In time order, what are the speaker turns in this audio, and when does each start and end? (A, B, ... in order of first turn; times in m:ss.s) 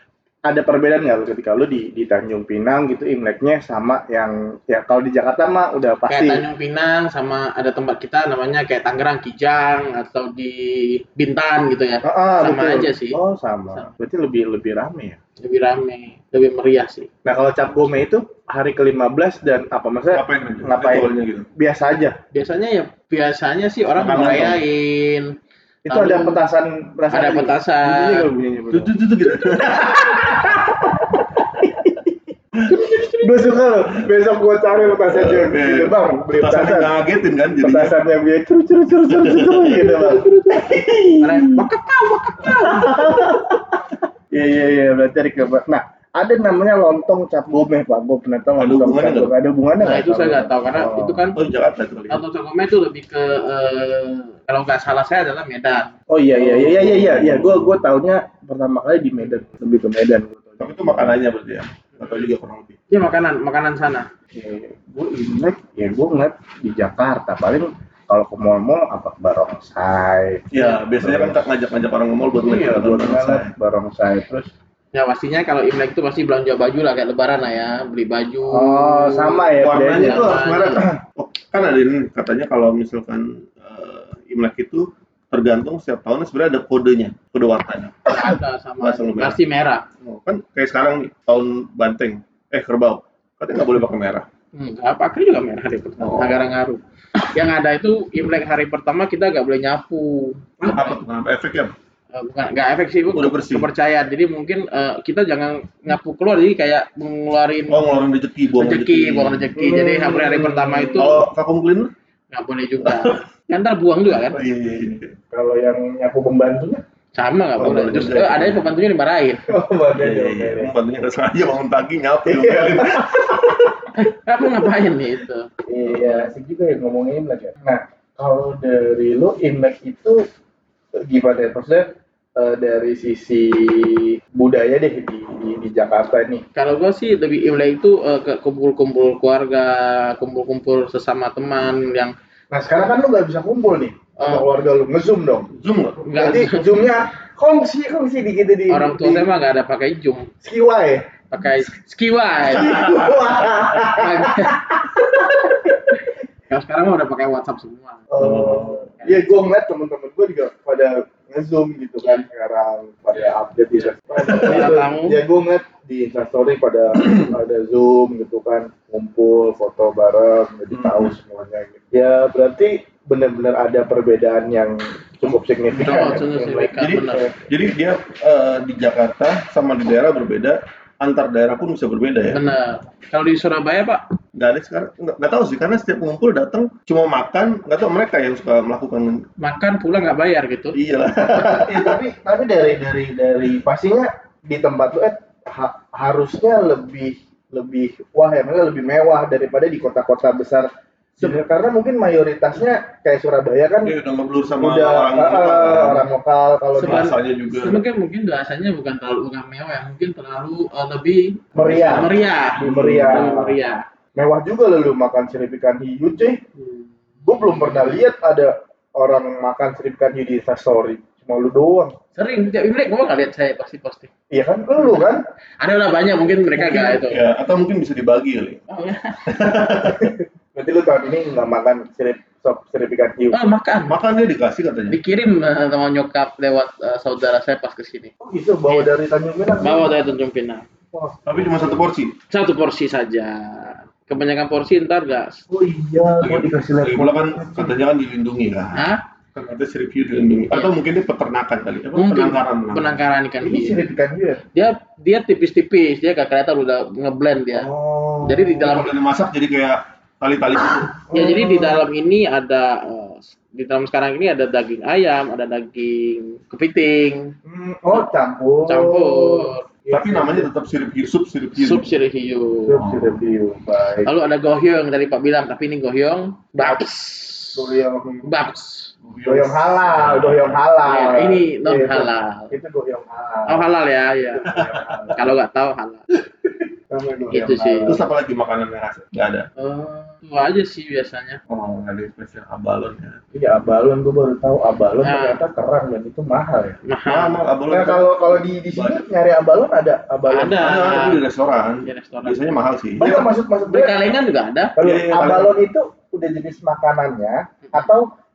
0:00.5-0:06.4 A
0:06.1-0:13.2 B
0:12.0-0:15.2 A
0:15.4-0:17.1 B
0:17.2-0:22.2 A
0:20.1-0:21.5 C
0:22.3-0:25.4 B
0:24.0-0:24.6 C
0:25.8-0:32.1 A
0:25.9-0:26.4 B
0:27.1-0:28.3 B
0:28.7-0:30.7 C
0:32.7-0:36.9 A
0:32.8-0:33.3 B
0:35.1-0:38.0 C
0:37.6-0:41.7 A
0:39.1-0:39.9 C
0:39.9-0:40.7 B
0:41.2-0:43.3 B
0:42.5-0:43.7 A
0:44.3-0:51.2 A
0:48.6-0:49.3 C
0:49.8-0:51.4 B
0:51.4-0:52.2 C
0:52.1-0:55.9 B
0:56.1-1:01.2 A
0:56.4-0:57.8 C
1:00.6-1:02.8 C
1:02.9-1:04.1 B
1:04.3-1:11.4 A
1:10.5-1:13.5 C
1:12.3-1:14.5 A
1:14.9-1:20.8 B
1:18.5-1:21.0 A
1:19.6-1:29.4 C
1:28.1-1:29.9 B
1:30.0-1:34.3 C
1:34.5-1:41.0 B
1:36.0-1:36.4 C
1:40.7-1:41.8 C
1:42.1-1:47.9 B
1:43.1-1:43.7 C
1:47.7-1:49.5 C
1:48.6-1:51.2 B
1:49.6-1:51.0 A
1:50.9-1:51.9 C
1:52.3-1:54.4 B
1:52.8-1:53.2 C
1:54.3-1:55.1 C
1:55.3-1:56.8 A
1:57.2-1:59.5 B
1:57.6-1:58.7 C
1:57.6-1:58.3 A
1:59.5-2:00.7 A
2:00.0-2:03.8 C
2:02.3-2:03.6 A
2:04.0-2:05.5 B
2:05.7-2:10.2 A
2:11.1-2:16.4 A
2:16.6-2:22.2 B
2:22.5-2:25.5 A
2:24.2-2:24.5 B
2:25.5-2:26.0 C
2:26.0-2:26.9 B
2:26.2-2:29.3 A
2:28.7-2:30.3 B
2:30.4-2:31.2 A
2:31.3-2:34.6 B
2:32.5-2:36.0 A
2:32.5-2:33.6 C
2:36.0-2:38.1 B
2:38.1-2:57.4 A
2:38.2-2:38.9 C
2:39.0-2:39.4 B
2:43.8-2:45.2 B
2:47.0-2:47.3 C
2:50.7-2:51.2 C
2:55.3-3:02.4 C
2:55.8-2:57.2 B
3:02.3-3:04.0 B
3:04.4-3:09.2 C
3:09.4-3:10.8 B
3:10.7-3:12.0 C
3:11.4-3:20.7 A
3:21.2-3:24.0 A
3:23.8-3:26.1 C
3:24.6-3:27.1 A
3:26.8-3:27.8 C
3:26.8-3:33.8 B
3:31.6-3:33.4 C
3:31.6-3:33.6 A
3:34.2-3:36.4 A
3:36.6-3:38.0 B
3:37.2-3:42.0 A
3:42.2-3:44.1 B
3:44.3-3:45.2 A
3:44.8-3:47.2 B
3:46.6-3:47.0 A
3:47.0-3:48.6 C
3:48.7-3:49.4 B
3:49.3-3:50.2 C
3:49.6-3:53.4 A
3:53.3-3:54.0 B
3:53.9-3:55.0 C
3:54.9-3:58.1 B
3:58.2-3:59.9 A
3:59.6-4:00.6 B
4:00.9-4:01.8 A
4:01.2-4:02.2 C
4:02.3-4:05.4 B
4:05.5-4:07.8 A
4:06.2-4:13.0 C
4:08.8-4:09.0 B
4:12.0-4:13.8 B
4:13.4-4:14.4 A
4:14.5-4:17.7 B
4:17.5-4:18.7 A
4:18.2-4:18.9 B
4:18.6-4:21.0 C
4:21.1-4:21.8 A
4:21.1-4:27.4 B
4:27.4-4:30.5 A
4:28.7-4:29.6 B
4:29.9-4:31.9 C
4:31.6-4:32.8 B
4:32.7-4:34.1 A
4:32.8-4:33.2 C
4:34.0-4:38.9 B
4:37.5-4:38.2 A
4:39.0-4:40.6 C
4:39.2-4:43.7 A
4:40.9-4:42.5 B
4:43.5-4:44.5 B
4:44.3-4:45.3 A
4:44.5-4:45.1 C
4:45.1-4:46.1 B
4:46.9-4:48.0 A
4:47.3-4:48.0 B
4:47.9-4:49.5 C
4:49.6-4:51.4 B
4:51.5-4:53.2 C
4:53.3-4:56.8 A
4:55.0-4:55.4 B
4:56.9-4:57.4 B
4:57.1-4:59.0 C
4:57.7-5:01.0 A
5:00.3-5:01.2 B
5:00.6-5:03.3 C
5:01.8-5:02.4 B
5:03.0-5:03.9 A
5:03.7-5:04.8 B
5:04.8-5:08.1 A
5:04.8-5:05.6 C